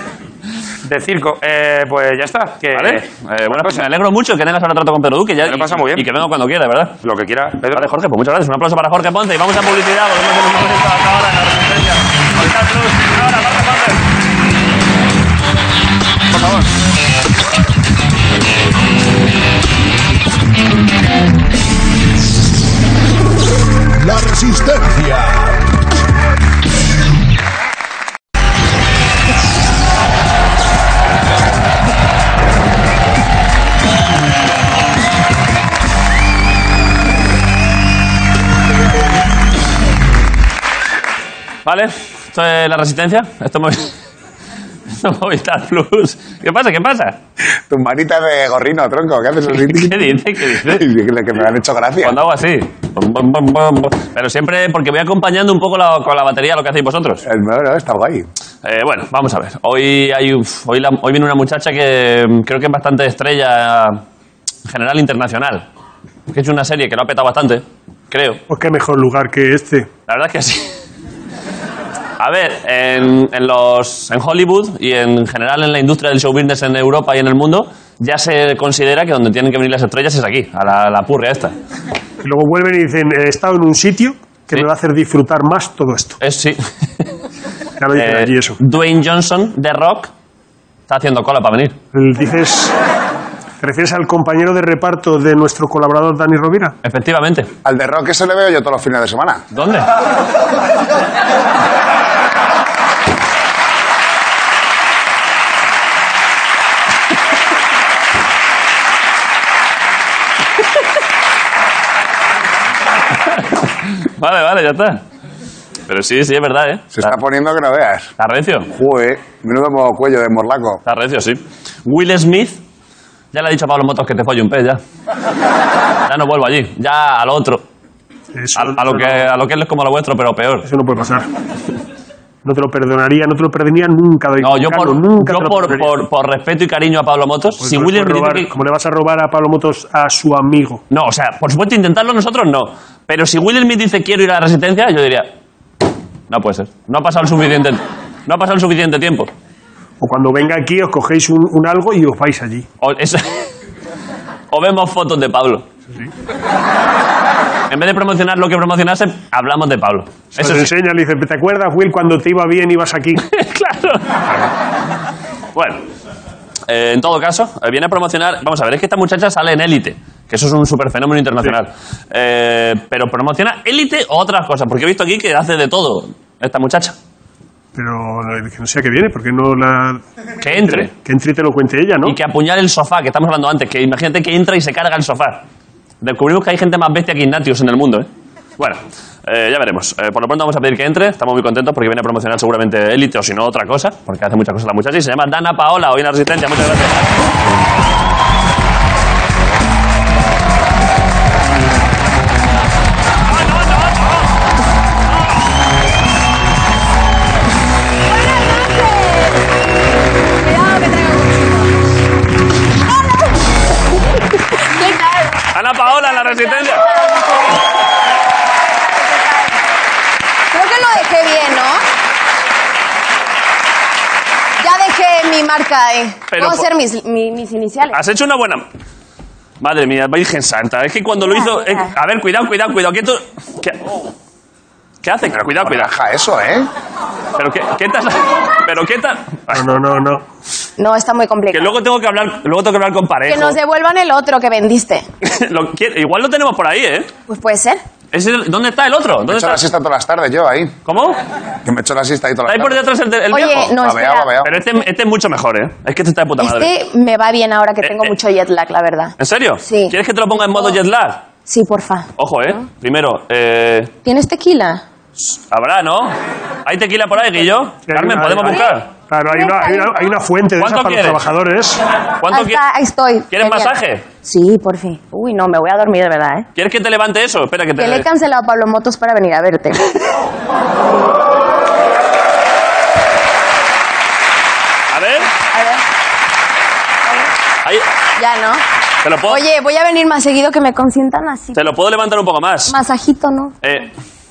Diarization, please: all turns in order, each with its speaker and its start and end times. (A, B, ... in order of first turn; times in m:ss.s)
0:00.8-0:03.8 A
0:02.7-0:07.0 B
0:05.4-0:06.1 A
0:07.0-0:07.9 A
0:07.7-0:14.0 B
0:16.3-0:16.7 B
0:24.1-0:25.3 C
0:41.6-0:43.9 B
0:45.0-0:47.2 B
0:47.7-0:52.2 C
0:49.5-0:50.9 B
0:52.0-0:57.2 B
0:57.2-0:58.3 C
0:58.6-1:04.0 B
1:04.7-1:05.6 B
1:06.3-1:08.4 B
1:08.5-1:09.9 D
1:10.1-1:10.8 B
1:12.2-1:21.5 B
1:22.2-1:26.2 D
1:26.2-1:27.1 B
1:27.8-1:28.6 D
1:27.9-1:30.1 B
1:30.9-1:31.8 B
1:31.9-1:32.7 D
1:33.6-1:36.7 D
1:36.8-1:37.5 B
1:37.6-1:39.4 C
1:39.5-1:39.9 B
1:53.3-1:55.0 B
1:55.9-1:57.1 B
1:56.9-1:58.1 C
1:58.2-1:58.7 B
1:58.7-2:00.8 C
2:00.8-2:02.6 B
2:03.3-2:04.8 B
2:06.1-2:07.6 B
2:08.4-2:09.3 D
2:08.6-2:10.7 B
2:10.6-2:11.3 D
2:12.4-2:16.0 D
2:14.4-2:18.5 B
2:17.6-2:20.8 D
2:20.9-2:25.3 B
2:26.3-2:29.3 B
2:30.0-2:32.7 D
2:32.8-2:33.5 B
2:34.5-2:35.7 B
2:37.7-2:40.7 B
2:40.4-2:43.2 D
2:43.2-2:44.1 B
2:45.6-2:45.8 B
2:46.7-2:57.0 B
2:57.8-3:02.2 D
3:00.4-3:00.9 B
3:02.0-3:05.4 B
3:06.0-3:08.1 B
3:08.6-3:17.1 B
3:23.5-3:24.1 B
3:28.1-3:29.5 E
3:30.4-3:31.7 E
3:34.6-3:37.6 E
3:35.5-3:36.9 B
3:38.7-3:39.6 E
3:40.5-3:41.8 E
3:44.6-3:48.0 E
3:46.3-3:46.7 B
3:47.9-3:48.7 B
3:49.6-3:54.1 B
3:51.2-3:51.9 E
3:55.0-3:55.9 B
3:55.4-3:56.7 C
3:57.4-3:59.8 B
3:59.5-4:00.2 D
4:00.8-4:01.8 E
4:01.5-4:03.6 B
4:03.3-4:05.1 E
4:05.2-4:07.1 B
4:07.3-4:07.8 E
4:08.1-4:09.6 B
4:09.3-4:10.8 C
4:10.9-4:11.2 B
4:11.6-4:12.8 C
4:12.5-4:13.8 B
4:13.3-4:14.3 E
4:13.6-4:14.6 C
4:14.4-4:16.7 B
4:16.4-4:20.0 E
4:17.8-4:18.2 B
4:19.2-4:21.2 B
4:20.5-4:20.8 E
4:21.5-4:22.1 E
4:22.2-4:23.9 B
4:24.0-4:24.8 E
4:25.2-4:26.2 B
4:26.7-4:28.9 B
4:27.9-4:31.8 D
4:28.5-4:28.8 E
4:29.3-4:30.1 E
4:30.6-4:31.2 B
4:32.2-4:32.6 B
4:32.3-4:36.5 E
4:33.3-4:34.1 B
4:36.6-4:38.1 B
4:37.8-4:39.9 E
4:44.9-4:45.3 B
4:45.5-4:45.8 E
4:48.2-4:48.6 E
4:49.0-4:49.4 B
4:49.3-4:51.6 E
4:51.5-4:52.8 B
4:52.7-4:53.5 E
4:53.6-4:53.9 B